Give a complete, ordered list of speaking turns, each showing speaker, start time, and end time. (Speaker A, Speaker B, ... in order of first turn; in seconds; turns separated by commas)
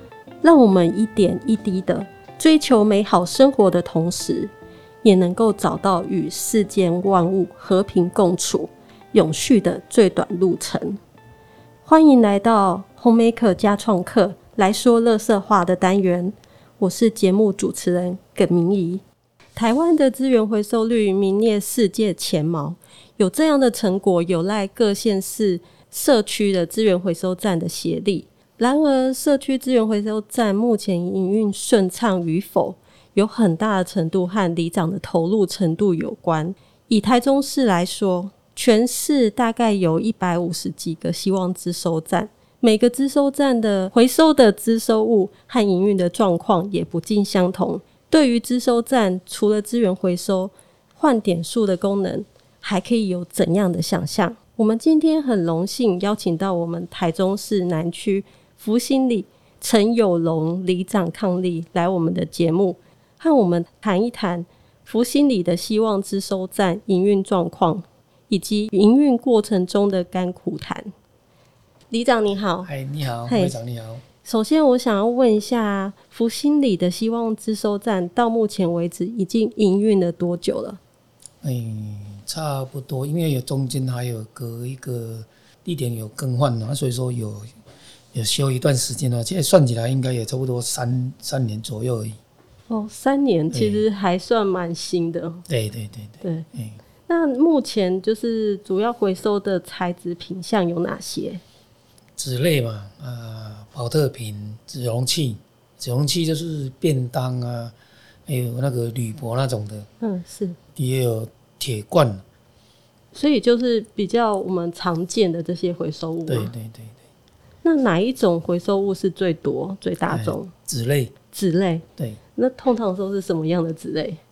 Speaker A: 0.4-4.5, Speaker A: 5.0-11.0, Speaker A: 11.8-19.0, Speaker A: 19.6-70.9, Speaker A: 71.9-72.7, Speaker B: 72.6-74.0, Speaker A: 73.3-73.5, Speaker A: 74.2-80.8, Speaker B: 81.4-87.5, Speaker B: 88.1-92.2, Speaker A: 92.7-95.4, Speaker B: 93.5-93.8, Speaker B: 95.5-96.8, Speaker A: 96.2-96.5, Speaker A: 97.1-101.4, Speaker B: 102.2-107.7, Speaker B: 108.3-109.9, Speaker A: 110.0-110.6, Speaker B: 110.8-112.2, Speaker A: 113.1-116.5, Speaker B: 116.3-116.9, Speaker A: 117.6-120.5, Speaker B: 120.1-121.1, Speaker A: 121.3-121.8, Speaker A: 122.3-124.2